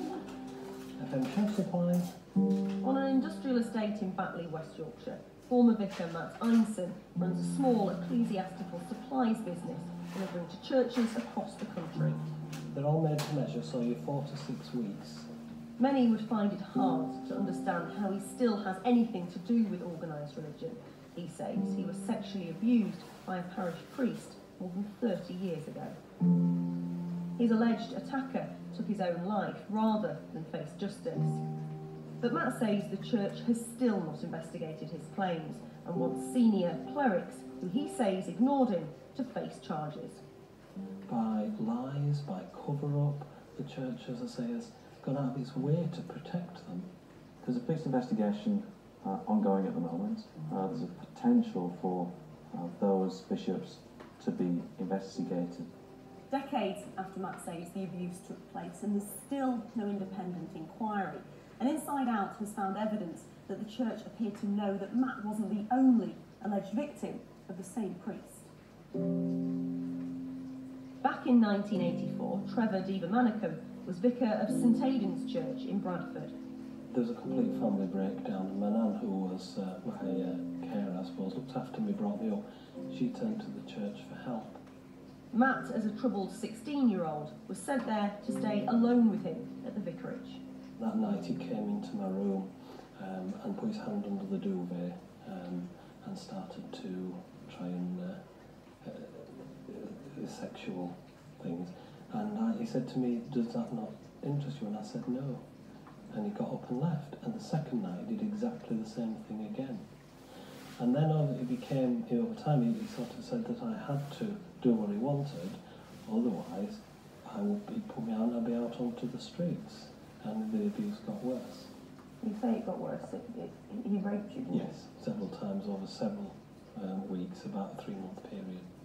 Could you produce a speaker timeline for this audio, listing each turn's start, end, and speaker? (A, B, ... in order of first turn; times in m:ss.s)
0:01.0-0:02.1 A
0:02.8-0:12.2 B
0:12.7-0:15.3 A
0:15.8-0:26.0 B
0:27.4-0:31.4 B
0:32.2-0:40.2 B
0:41.1-0:46.9 A
0:47.4-0:55.7 C
0:56.3-1:08.5 B
1:11.0-1:16.3 B
1:16.9-1:24.6 A
1:25.3-1:30.4 B
1:30.8-1:38.2 A
1:38.8-1:45.4 A
1:46.1-1:49.8 A
1:50.8-2:01.7 A
2:02.2-2:04.7 B
2:04.5-2:08.6 A